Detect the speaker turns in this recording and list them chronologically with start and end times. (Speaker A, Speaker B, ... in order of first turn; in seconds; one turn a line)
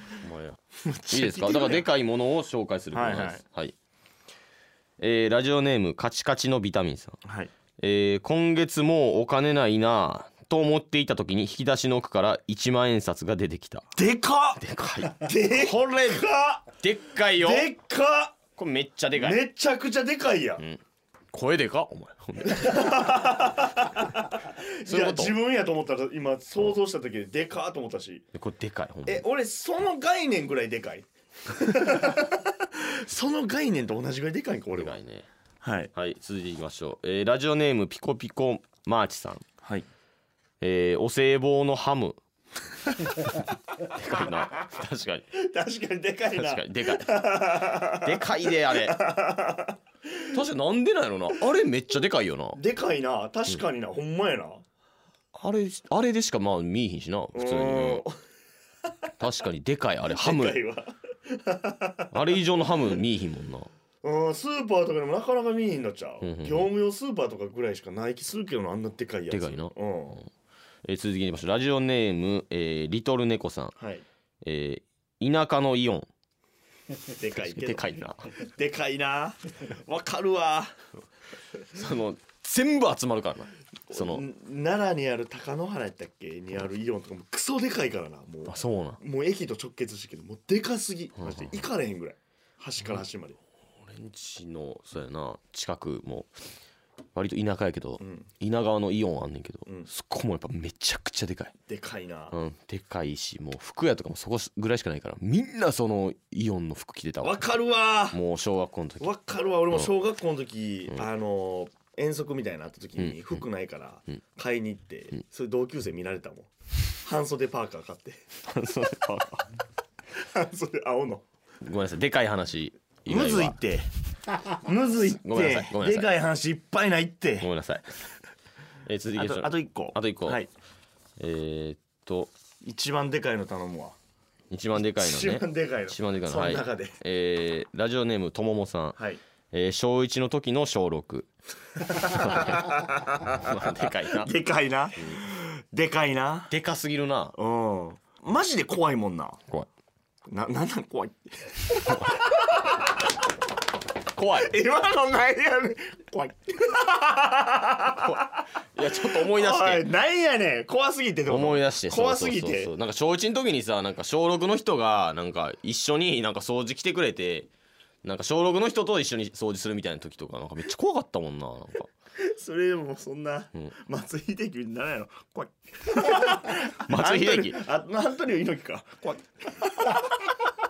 Speaker A: 0.2-0.6
Speaker B: 0.8-1.9
Speaker A: 1.1-3.8
Speaker B: 2.9-3.4
Speaker A: 5.0-7.2
Speaker B: 7.2-7.5
Speaker A: 7.8-13.8
Speaker B: 14.0-16.7
Speaker A: 14.6-15.4
Speaker A: 16.8-17.7
Speaker B: 17.3-18.4
Speaker A: 18.6-19.4
Speaker B: 19.1-20.6
Speaker A: 20.6-22.9
Speaker B: 22.4-28.2
Speaker A: 24.9-25.4
Speaker A: 28.3-29.2
Speaker B: 29.1-35.0
Speaker A: 34.8-35.3
Speaker B: 35.6-35.9
Speaker A: 35.9-39.5
Speaker A: 40.6-42.2
Speaker A: 43.2-45.3
Speaker B: 45.4-49.8
Speaker A: 46.3-49.0
Speaker A: 50.3-52.6
Speaker B: 52.5-54.6
Speaker A: 55.4-58.0
Speaker B: 57.3-58.1
Speaker A: 59.2-60.6
Speaker B: 60.0-62.2
Speaker A: 62.1-63.7
Speaker B: 64.0-70.2
Speaker A: 66.2-66.7
Speaker A: 69.3-70.3
Speaker A: 70.8-73.7
Speaker B: 73.8-74.0
Speaker A: 74.4-76.1
Speaker B: 77.2-80.7
Speaker A: 77.3-78.3
Speaker A: 81.7-84.2
Speaker B: 83.9-93.4
Speaker A: 88.5-89.0
Speaker A: 91.2-91.6
Speaker A: 93.8-96.3
Speaker A: 97.2-101.5
Speaker B: 98.0-98.3
Speaker B: 101.7-102.4
Speaker A: 102.3-107.4
Speaker B: 107.2-108.2
Speaker A: 108.1-109.1
Speaker B: 109.0-116.5
Speaker A: 109.7-109.9
Speaker A: 113.0-113.4
Speaker B: 117.0-118.2
Speaker A: 118.5-119.5
Speaker B: 120.3-121.2
Speaker A: 121.6-123.6
Speaker B: 123.1-123.9
Speaker B: 124.5-127.5
Speaker A: 125.1-126.1
Speaker A: 127.4-127.9
Speaker A: 128.8-130.4
Speaker B: 129.2-130.5
Speaker A: 131.2-132.3
Speaker B: 132.6-134.0
Speaker A: 134.5-139.0
Speaker B: 134.8-137.0
Speaker A: 139.5-141.3
Speaker B: 141.8-146.5
Speaker A: 142.0-142.7
Speaker A: 143.2-144.3
Speaker A: 145.0-145.2
Speaker A: 146.5-147.4
Speaker B: 147.3-149.4
Speaker B: 150.3-152.3
Speaker A: 151.8-152.4
Speaker A: 154.1-154.6
Speaker B: 154.3-158.4
Speaker A: 158.0-159.9
Speaker B: 159.0-162.7
Speaker A: 161.3-167.5
Speaker A: 168.0-171.9
Speaker B: 172.2-180.1
Speaker A: 176.7-177.6